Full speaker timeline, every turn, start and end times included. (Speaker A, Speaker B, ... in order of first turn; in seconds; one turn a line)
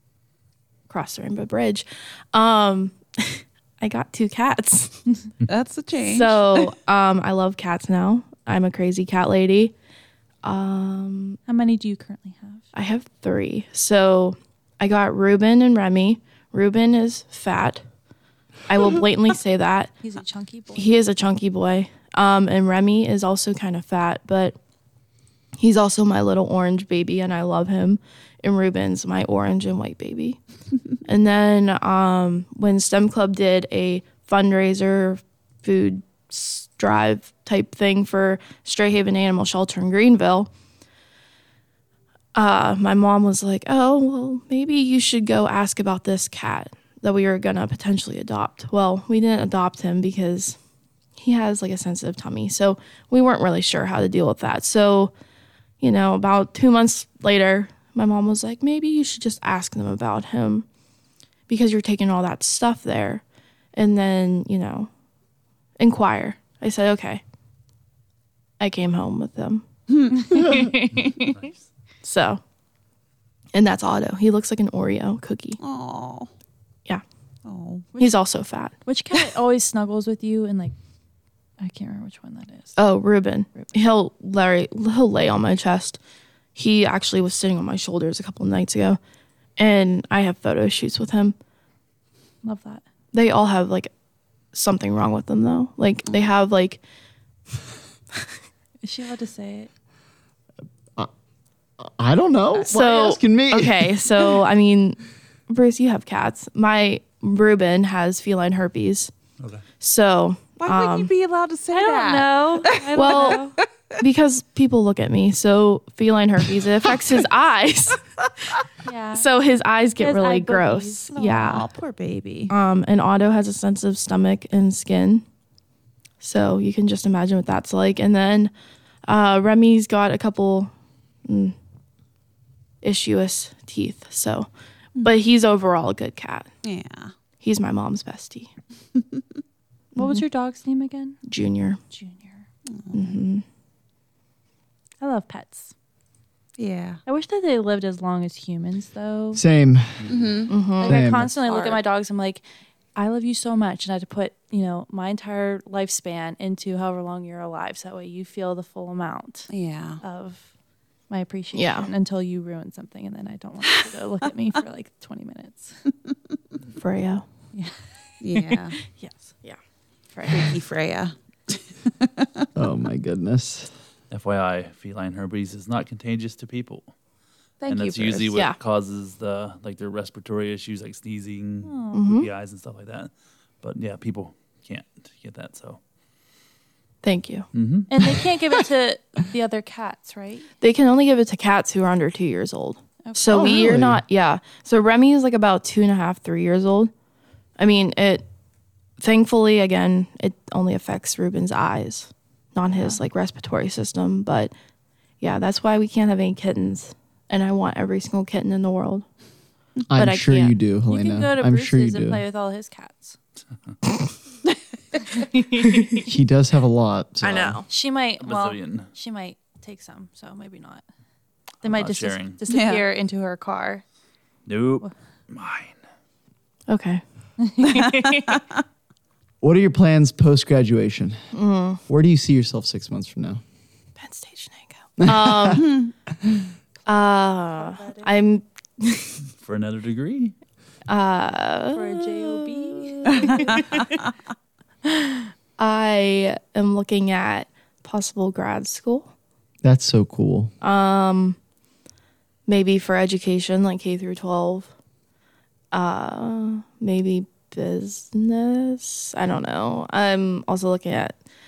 Speaker A: 0.9-5.2
Speaker B: 5.5-6.7
Speaker A: 6.0-9.7
Speaker A: 10.4-11.4
Speaker C: 11.5-12.6
Speaker A: 12.7-17.8
Speaker A: 18.7-19.9
Speaker C: 20.0-20.9
Speaker A: 20.8-24.6
Speaker A: 25.6-30.4
Speaker A: 31.0-40.5
Speaker A: 42.3-50.6
Speaker A: 51.2-55.1
Speaker A: 55.8-60.6
Speaker A: 61.5-63.2
Speaker A: 63.7-64.9
Speaker A: 65.8-67.2
Speaker A: 68.6-69.6
Speaker C: 70.1-71.5
Speaker D: 71.1-71.6
Speaker A: 72.0-72.4
Speaker A: 73.5-75.6
Speaker B: 75.6-76.3
Speaker B: 77.5-77.8
Speaker A: 77.9-78.7
Speaker C: 78.8-80.7
Speaker C: 81.6-82.8
Speaker A: 82.8-86.0
Speaker A: 86.5-89.0
Speaker A: 89.6-91.3
Speaker C: 92.4-92.8
Speaker A: 93.1-93.9
Speaker A: 94.5-96.8
Speaker C: 98.8-99.7
Speaker E: 101.8-104.3
Speaker A: 102.7-109.1
Speaker D: 109.4-109.6
Speaker A: 109.8-111.1
Speaker B: 110.6-113.6
Speaker C: 111.7-113.6
Speaker A: 112.9-118.0
Speaker B: 116.8-117.1
Speaker C: 118.8-119.3
Speaker A: 119.1-121.7
Speaker C: 120.0-121.5
Speaker B: 121.2-122.5
Speaker A: 122.5-125.2
Speaker A: 126.2-128.5
Speaker A: 129.1-130.7
Speaker A: 131.2-131.5
Speaker A: 132.8-134.5
Speaker A: 135.0-136.5
Speaker B: 136.6-137.1
Speaker A: 137.4-138.5
Speaker B: 138.9-139.2
Speaker A: 139.9-140.2
Speaker C: 139.9-141.2
Speaker A: 141.3-141.8
Speaker C: 141.9-142.4
Speaker A: 142.9-143.4
Speaker C: 145.0-145.7
Speaker B: 146.6-147.0
Speaker C: 147.1-149.4
Speaker E: 149.3-150.1
Speaker B: 150.1-150.5
Speaker A: 150.5-151.0
Speaker C: 150.8-152.4
Speaker E: 150.8-151.3
Speaker B: 151.4-151.8
Speaker C: 152.9-160.5
Speaker B: 159.5-160.0
Speaker C: 161.1-165.8
Speaker A: 161.5-161.9
Speaker A: 166.8-167.2
Speaker C: 167.5-169.3
Speaker B: 168.2-168.8
Speaker C: 170.2-170.5
Speaker B: 170.3-172.5
Speaker E: 172.5-173.7
Speaker D: 174.1-176.9
Speaker B: 177.6-178.3
Speaker D: 177.7-183.1
Speaker C: 181.6-182.0
Speaker A: 181.9-182.3
Speaker D: 183.6-185.8
Speaker A: 187.0-187.5
Speaker D: 187.5-187.9
Speaker C: 187.9-190.5
Speaker A: 190.6-196.9
Speaker C: 193.0-193.7
Speaker E: 193.3-194.0
Speaker A: 197.6-198.2
Speaker A: 199.0-204.5
Speaker A: 205.2-209.0
Speaker E: 209.9-212.2
Speaker A: 209.9-210.6
Speaker C: 210.9-213.2
Speaker C: 215.1-216.1
Speaker E: 216.0-217.6
Speaker A: 217.2-217.7
Speaker C: 217.7-220.8
Speaker D: 218.2-218.9
Speaker C: 221.6-223.8
Speaker D: 221.7-222.4
Speaker B: 222.5-222.8
Speaker D: 224.4-225.8
Speaker A: 226.7-227.0
Speaker C: 227.4-228.4
Speaker E: 229.4-231.2
Speaker A: 231.3-231.8
Speaker E: 231.9-233.4
Speaker A: 234.0-235.8
Speaker E: 235.0-235.7
Speaker A: 236.8-239.2
Speaker C: 237.6-238.1
Speaker D: 239.3-240.3
Speaker A: 240.9-243.9
Speaker C: 241.7-244.0
Speaker A: 245.6-249.1
Speaker E: 249.6-250.5
Speaker A: 250.6-251.4
Speaker A: 252.5-254.7
Speaker A: 255.7-261.2